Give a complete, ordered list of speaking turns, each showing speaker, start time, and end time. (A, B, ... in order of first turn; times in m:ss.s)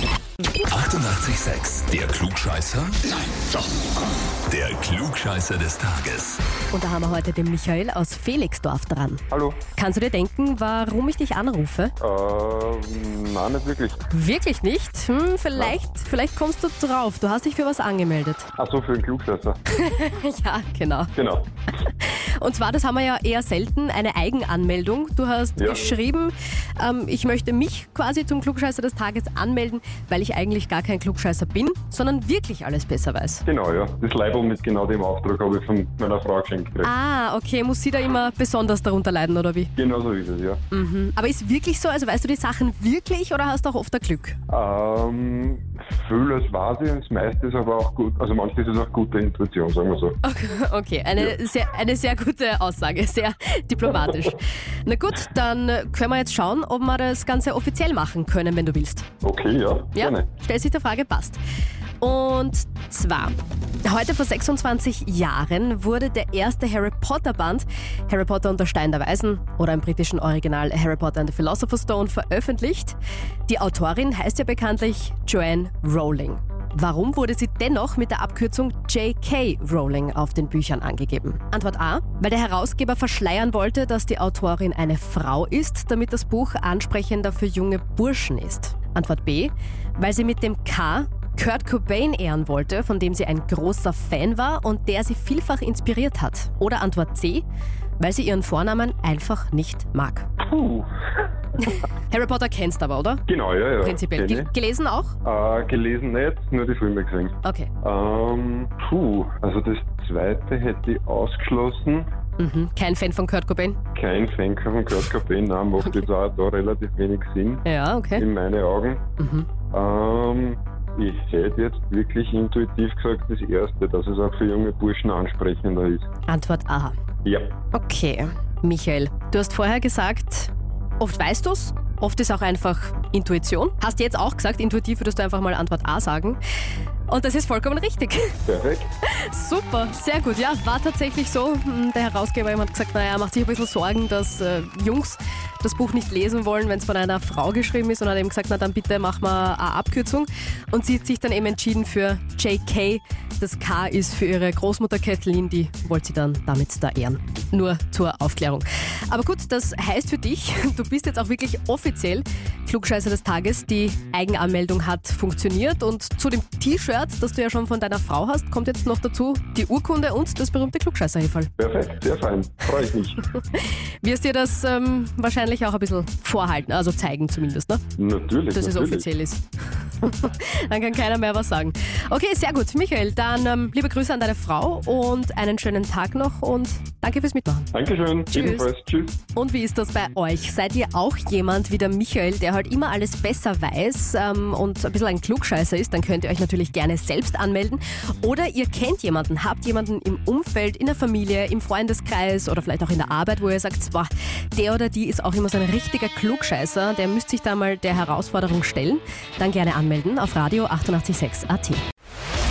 0:00.7-0:03.2 A
0:04.5-0:06.4 A
0:06.7-0:09.2 B
0:09.3-0:09.6 C
0:09.8-0:11.9 B
0:12.0-0:14.0 C
0:14.1-0:18.5 B
0:18.6-0:19.6 C
0:19.7-0:21.1 B
0:21.1-0:21.5 C
0:22.0-0:33.4 B
0:25.6-0:25.9 C
0:33.4-0:36.9 C
0:36.8-0:39.7 B
0:39.8-0:40.6 C
0:40.7-0:44.4 B
0:44.5-0:50.2 C
0:50.2-0:59.1 B
0:59.2-1:00.3 C
0:59.9-1:01.4 B
1:02.0-1:37.4 B
1:38.0-1:40.3 B
1:40.4-1:40.9 C
1:41.6-1:43.2 B
1:43.3-1:44.5 C
1:43.8-1:45.2 B
1:45.2-1:52.1 C
1:47.4-1:47.7 B
1:52.4-1:53.8 B
1:53.9-1:59.0 C
1:57.6-1:58.2 B
1:59.2-1:59.5 B
1:59.7-2:06.0 C
2:06.3-2:06.9 B
2:07.2-2:07.6 C
2:07.7-2:16.4 B
2:17.1-2:18.4 B
2:18.4-2:18.9 C
2:19.0-2:51.5 B
2:51.6-2:53.2 C
2:53.3-2:57.8 B
2:58.0-2:59.1 C
2:58.5-2:59.4 B
3:00.0-3:07.7 B
3:07.7-3:09.2 C
3:08.3-3:08.7 B
3:09.3-3:31.8 B